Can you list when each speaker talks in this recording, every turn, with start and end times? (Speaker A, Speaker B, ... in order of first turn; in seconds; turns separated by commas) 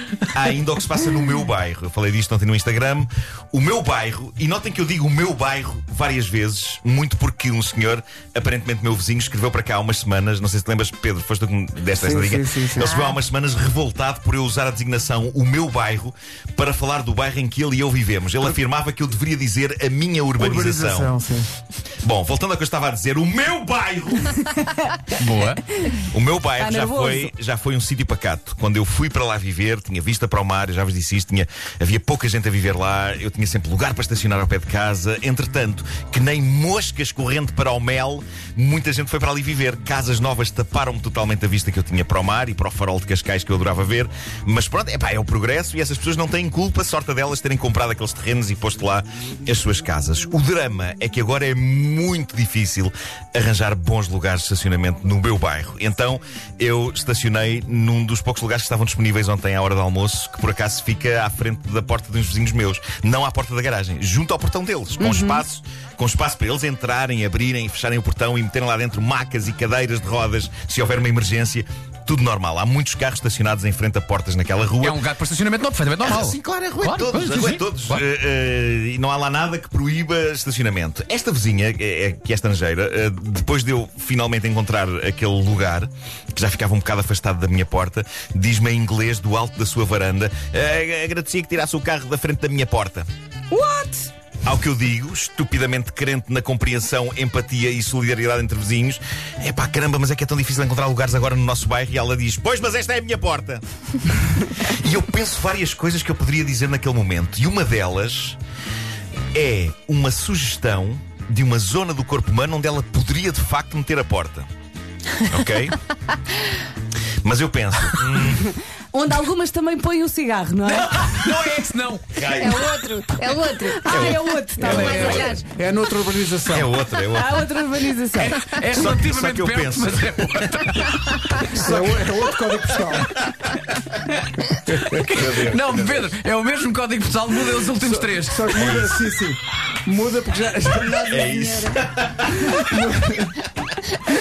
Speaker A: 0.3-21.1, Speaker B: 12.0-12.9, Speaker C: 12.8-13.1, Speaker B: 20.4-21.5, Speaker A: 22.0-24.5, Speaker D: 24.5-25.0, Speaker E: 25.2-25.6, Speaker A: 26.0-75.0, Speaker D: 26.6-27.3, Speaker D: 65.0-65.4, Speaker E: 74.8-78.0, Speaker A: 76.0-93.1, Speaker D: 93.5-94.1, Speaker A: 94.4-103.6, Speaker A: 104.5-108.4, Speaker A: 109.3-114.5, Speaker A: 115.3-115.8, Speaker A: 117.2-118.5, Speaker D: 118.9-121.4, Speaker E: 120.6-122.2, Speaker A: 122.1-122.8, Speaker C: 122.3-125.4, Speaker D: 123.7-125.2, Speaker A: 123.9-125.4, Speaker B: 124.7-126.7, Speaker A: 126.5-127.5, Speaker D: 127.1-128.4, Speaker E: 128.2-131.2, Speaker A: 128.7-130.7, Speaker B: 131.5-133.2, Speaker A: 131.7-132.1, Speaker A: 132.9-133.4, Speaker B: 134.5-135.6, Speaker E: 134.8-138.6, Speaker A: 135.2-136.0, Speaker B: 137.7-141.3, Speaker A: 138.5-139.0, Speaker A: 140.9-142.7, Speaker C: 141.2-141.8, Speaker B: 142.6-143.4